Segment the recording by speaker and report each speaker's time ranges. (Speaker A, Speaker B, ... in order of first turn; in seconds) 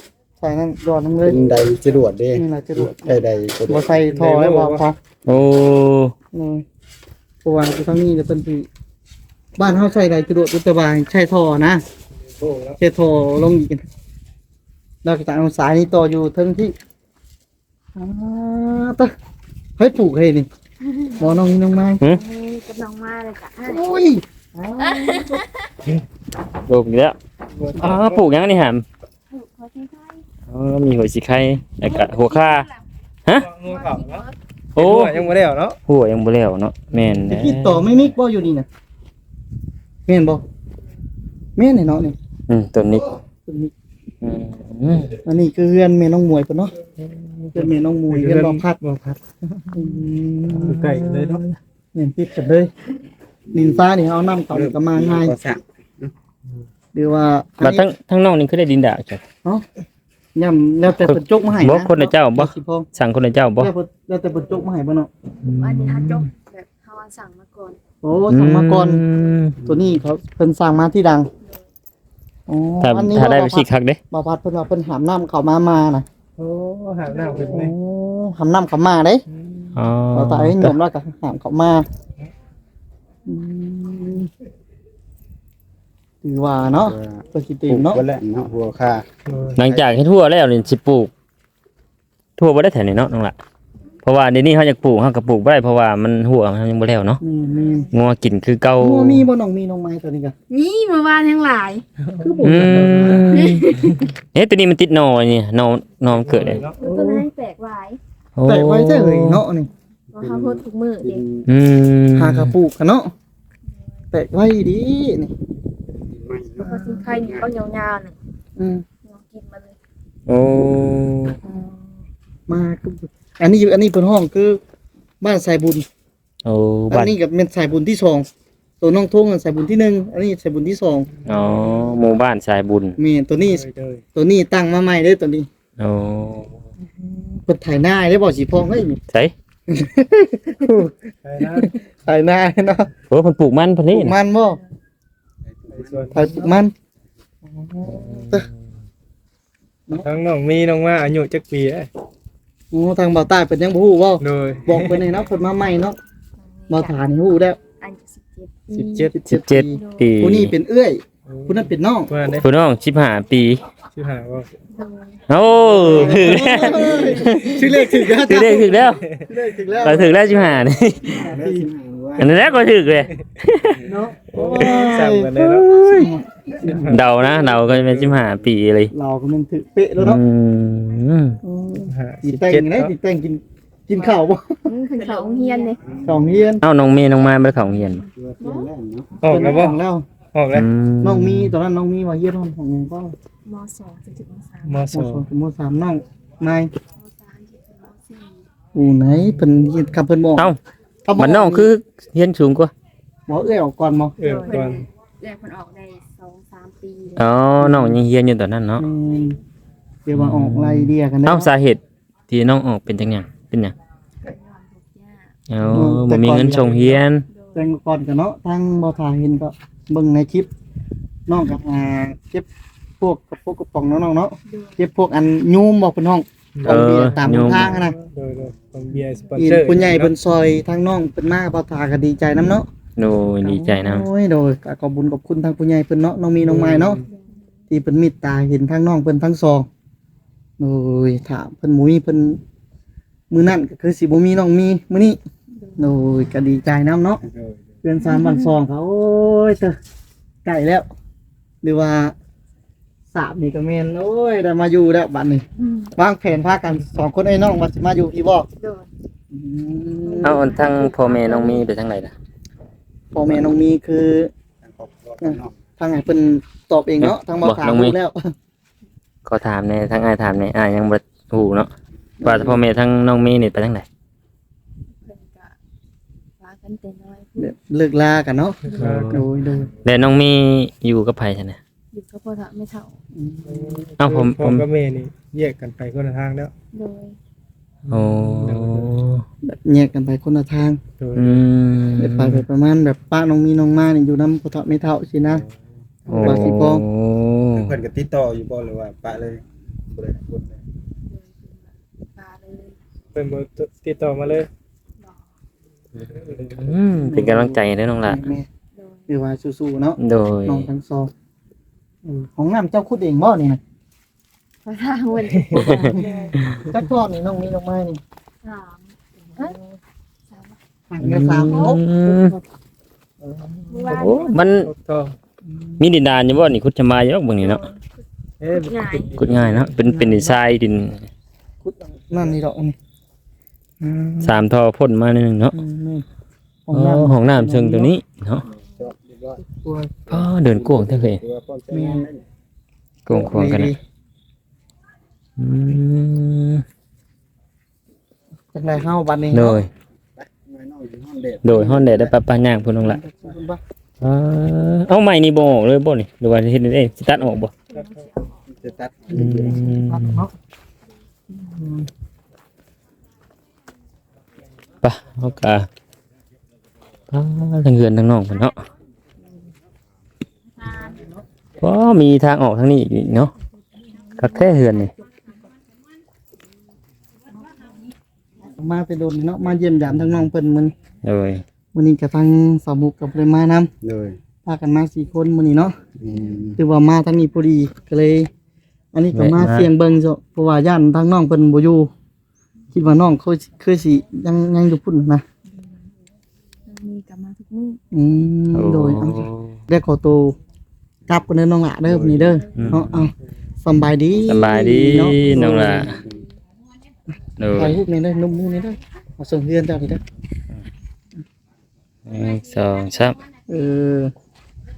Speaker A: 0.4-1.7, 2.3-5.0, 6.3-6.7, 7.4-8.7, 9.6-11.8, 12.8-13.8, 15.0-16.7, 17.9-19.1, 19.8-20.5, 21.2-22.0, 23.6-25.4, 37.3-38.7, 40.1-40.4, 41.6-42.2, 43.5-43.7, 45.2-46.7, 47.5-48.8, 49.7-51.4, 52.0-52.7, 53.5-55.4, 56.9-57.9, 60.4-62.9, 63.6-65.1, 68.0-69.0, 69.6-71.3, 72.5-76.0, 77.4-79.2, 80.1-81.8, 83.3-84.3, 86.2-88.0, 97.2-97.9, 98.8-100.3, 102.2-103.3, 106.8-107.2, 108.5-109.7, 112.2-113.1, 114.1-115.3, 116.6-117.2, 118.6-118.8, 122.5-124.6, 125.2-125.9, 126.9-128.3, 128.8-131.1, 133.0-133.6, 134.2-135.5, 136.9-139.0, 139.7-140.9, 141.5-142.9, 143.9-144.6, 146.1-146.7, 147.5-148.5, 152.7-156.0, 156.7-157.6, 158.7-162.1, 165.7-170.4, 171.1-171.7, 173.8-177.0, 178.9-180.2, 181.4-184.6, 186.0-186.6, 189.3-190.1, 191.0-193.2, 194.9-196.7, 198.7-200.5, 201.1-201.7, 203.3-204.2, 207.6-208.0, 208.8-209.4, 210.1-211.5, 215.7-217.0, 217.6-220.5, 221.3-222.5, 223.0-228.0, 229.4-232.7, 233.4-237.0, 237.7-239.7, 240.6-242.4, 243.3-245.2, 245.8-247.2, 247.8-249.8, 250.4-250.9, 251.6-252.1, 253.1-258.5, 259.3-260.5, 263.1-264.3, 265.2-268.2, 272.2-272.6, 277.4-279.7, 283.1-283.9, 289.4-290.8, 292.0-295.4, 296.1-296.9, 307.0-308.5, 309.1-311.1, 312.1-313.6, 315.5-318.0, 320.9-322.4, 323.2-324.0, 325.5-325.8, 329.8-330.4, 331.6-332.8, 333.8-334.4, 335.5-336.1, 336.7-337.9, 339.4-340.1, 341.7-342.1, 343.1-343.8, 348.5-349.6, 352.8-353.6, 359.1-360.3, 361.3-361.9, 370.6-371.2, 378.4-380.7, 381.7-383.7, 384.4-385.8, 386.6-388.3, 388.9-391.9, 392.7-395.2, 397.9-400.4, 401.1-403.1, 403.6-406.0, 407.5-410.0, 413.5-414.1
Speaker B: 1.3-3.9, 53.5-53.8, 54.5-56.1, 86.8-89.1, 110.2-111.5, 115.9-117.5, 145.6-146.2, 169.8-170.4, 171.0-172.5, 185.1-186.4, 188.2-189.2, 247.3-247.6, 264.6-265.5, 296.1-296.5, 297.5-300.6, 338.8-339.4, 340.1-342.2, 350.2-352.1, 358.5-359.6, 383.8-384.2, 386.0-386.6, 401.9-402.3
Speaker C: 4.0-4.8, 12.2-12.8, 27.5-28.2, 33.3-34.3, 34.8-35.8, 37.0-37.3, 47.1-49.2, 50.5-51.6, 76.4-77.7, 79.3-79.7, 89.3-89.6, 102.0-104.0, 106.1-106.8, 131.3-131.7, 133.4-134.0, 141.2-141.7, 145.7-146.5, 150.0-151.9, 154.2-155.0, 158.8-159.1, 161.3-162.5, 163.9-164.5, 165.8-166.3, 174.2-175.7, 176.6-178.2, 181.9-182.9, 189.2-189.8, 190.3-190.7, 194.6-195.2, 204.2-204.9, 227.4-230.1, 236.4-237.0, 278.7-279.2, 283.5-286.5, 287.9-289.0, 291.0-291.4, 303.1-304.5, 306.1-306.7, 323.9-325.2, 328.4-329.8
Speaker D: 5.3-6.1, 26.7-27.2, 27.8-28.8, 30.5-32.7, 34.8-35.2, 35.9-38.0, 42.5-43.2, 44.2-45.1, 57.6-59.2, 60.9-63.7, 65.4-66.3, 68.3-69.6, 72.8-74.0, 79.8-80.7, 89.6-91.1, 92.4-93.3, 94.0-97.2, 97.9-99.3, 102.4-103.8, 104.3-106.7, 108.4-109.4, 111.5-112.5, 120.3-121.4, 126.5-127.2, 131.3-133.0, 135.8-136.5, 143.1-144.2, 159.3-160.5, 162.4-163.6, 165.3-169.0, 169.8-171.3, 172.2-173.8, 174.5-176.1, 176.9-178.9, 180.0-181.4, 186.6-188.1, 190.5-191.5, 201.2-202.7, 207.2-208.8, 210.1-213.8, 215.5-217.2, 226.7-227.7, 233.0-234.1, 260.2-262.1, 267.0-267.9, 269.2-273.9, 278.8-279.2, 279.8-281.6, 284.0-284.6, 287.9-289.2, 291.1-292.4, 296.1-297.7, 306.0-308.3, 310.0-310.7, 315.5-316.6, 321.0-322.4, 323.9-324.7, 325.8-327.6, 329.2-331.1, 334.2-335.6, 336.7-338.4, 340.1-341.2, 343.1-343.7, 345.4-346.6, 349.3-349.7, 351.4-353.0, 354.0-357.5, 359.1-360.2, 364.8-365.7, 367.1-368.6, 371.6-373.3, 374.2-374.9, 381.0-381.4, 389.1-389.7, 398.5-399.6, 402.6-403.1, 404.3-406.0, 407.4-407.8, 412.1-413.2
Speaker E: 20.9-21.3, 22.1-23.8, 24.8-25.5, 29.3-30.2, 31.9-32.8, 33.7-34.4, 65.6-67.8, 100.5-101.8, 103.3-104.0, 106.7-108.0, 110.1-111.3, 116.6-118.2, 119.0-119.8, 156.6-157.0, 157.8-159.1, 159.7-160.0, 164.8-165.2, 184.7-185.8, 187.8-188.7, 193.4-194.8, 197.0-198.4, 204.2-207.2, 214.2-215.3, 217.3-217.7, 224.5-224.8, 248.0-248.5, 255.6-255.9, 258.6-258.9, 260.0-261.6, 275.0-275.6, 276.4-277.5, 278.7-278.9, 281.9-282.9, 286.7-287.2, 301.1-301.6, 302.1-302.8, 308.8-309.1, 314.6-316.1, 318.4-318.9, 321.5-321.8, 323.7-324.5, 327.4-327.8, 328.6-329.1, 357.7-358.4, 370.7-371.0, 396.7-397.8